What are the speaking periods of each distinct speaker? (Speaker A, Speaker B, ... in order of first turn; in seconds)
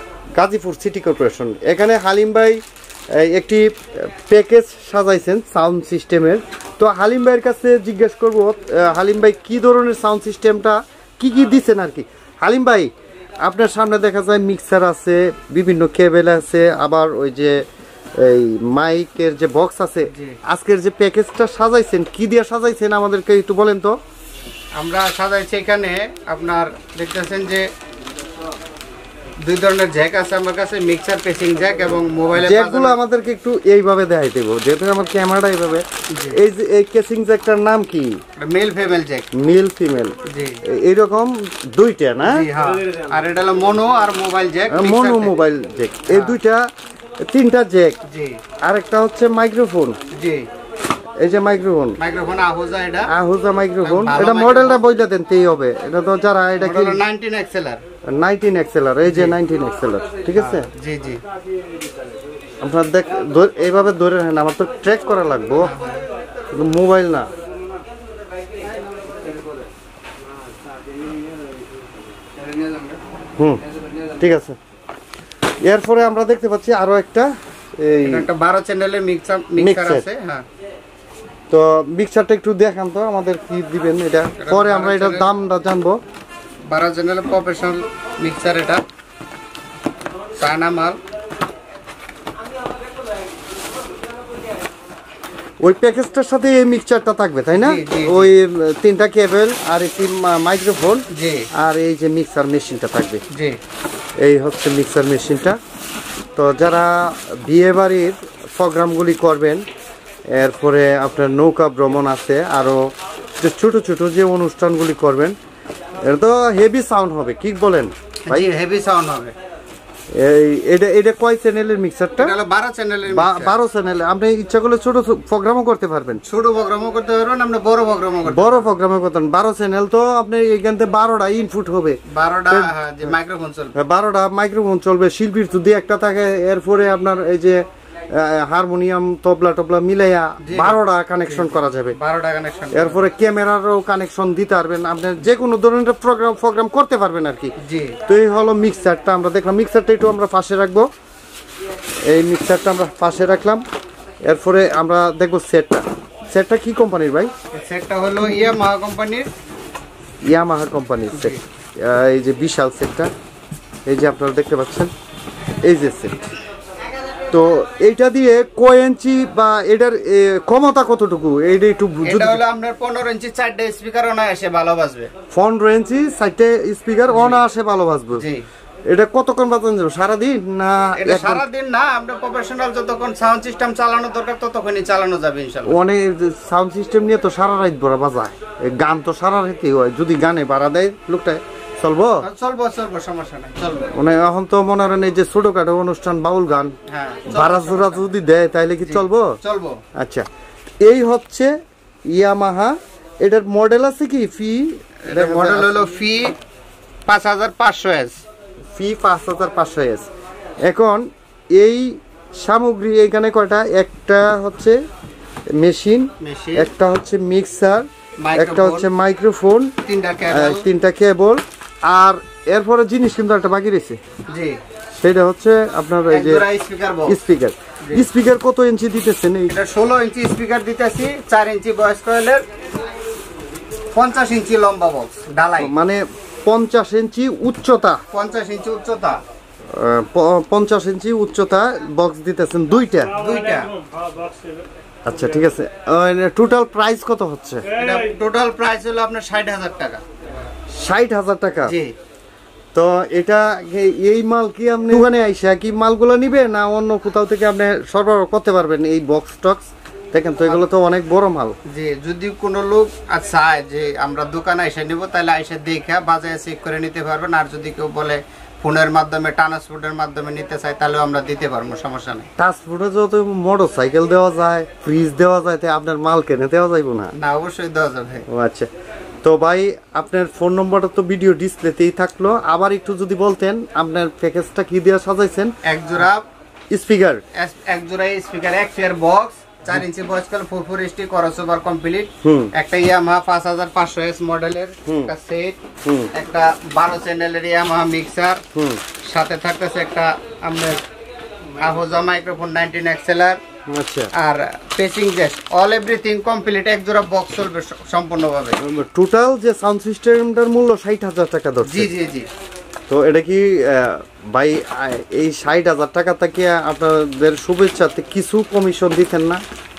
Speaker A: 0.3-2.6, 3.1-12.9, 13.4-17.6, 18.2-23.9, 32.4-38.2, 39.3-42.5, 44.7-46.6, 47.2-48.0, 48.6-50.0, 51.2-52.0, 53.0-57.0, 58.0-60.7, 62.6-65.7, 66.5-67.3, 73.4-74.6, 75.6-78.3, 79.6-80.0, 81.5-86.0, 95.6-103.2, 104.2-105.6, 106.3-109.7, 110.3-112.9, 113.4-115.3, 116.0-118.5, 120.1-122.3, 123.1-126.2, 128.3-132.7, 133.7-141.9, 142.7-147.5, 148.1-150.9, 152.1-153.6, 154.2-157.3, 160.3-163.1, 163.8-164.9, 165.6-166.2, 167.3-172.4, 175.3-178.2, 178.9-181.4, 185.7-192.2, 193.9-196.7, 197.3-199.3, 199.9-200.2, 200.8-201.5, 202.1-205.8, 208.7-210.1, 210.6-214.8, 215.6-219.7, 220.3-224.0, 225.0-226.4, 227.1-229.5, 235.6-238.0, 239.7-243.2, 245.0-247.6, 250.7-251.7, 252.7-261.5, 272.4-277.1, 278.3-278.7, 279.2-285.5, 286.7-287.2, 292.2-292.5, 294.9-295.1, 295.8-296.1, 298.5-298.8, 303.7-304.1, 308.6-311.9, 312.9-319.4
Speaker B: 20.1-20.4, 24.7-27.7, 29.4-33.0, 36.1-36.4, 38.4-39.3, 40.2-40.6, 42.2-45.4, 46.1-46.4, 48.0-48.4, 50.1-50.5, 52.0-53.1, 53.8-54.8, 56.5-57.8, 59.1-59.4, 60.3-61.2, 65.6-66.0, 78.0-80.4, 84.4-85.3, 86.7-88.8, 90.4-91.0, 97.5-98.3, 101.1-101.5, 103.3-103.6, 118.3-119.3, 122.2-123.5, 126.2-128.7, 132.1-133.8, 140.4-143.0, 147.6-148.0, 157.5-159.3, 161.1-161.4, 172.0-175.1, 177.1-177.4, 178.1-178.4, 181.0-185.8, 192.2-193.9, 196.9-198.0, 198.8-199.8, 205.1-206.3, 207.1-208.2, 216.2-216.7, 218.2-218.9, 219.8-220.7, 224.3-224.6, 226.1-227.2, 229.5-232.4, 233.9-235.7, 238.1-239.2, 243.1-243.8, 247.7-250.0, 251.7-251.9, 261.7-272.3, 277.1-278.2, 285.6-286.3, 287.3-295.6, 296.1-298.4, 299.0-300.8, 301.6-303.4, 304.1-308.6, 311.6-312.3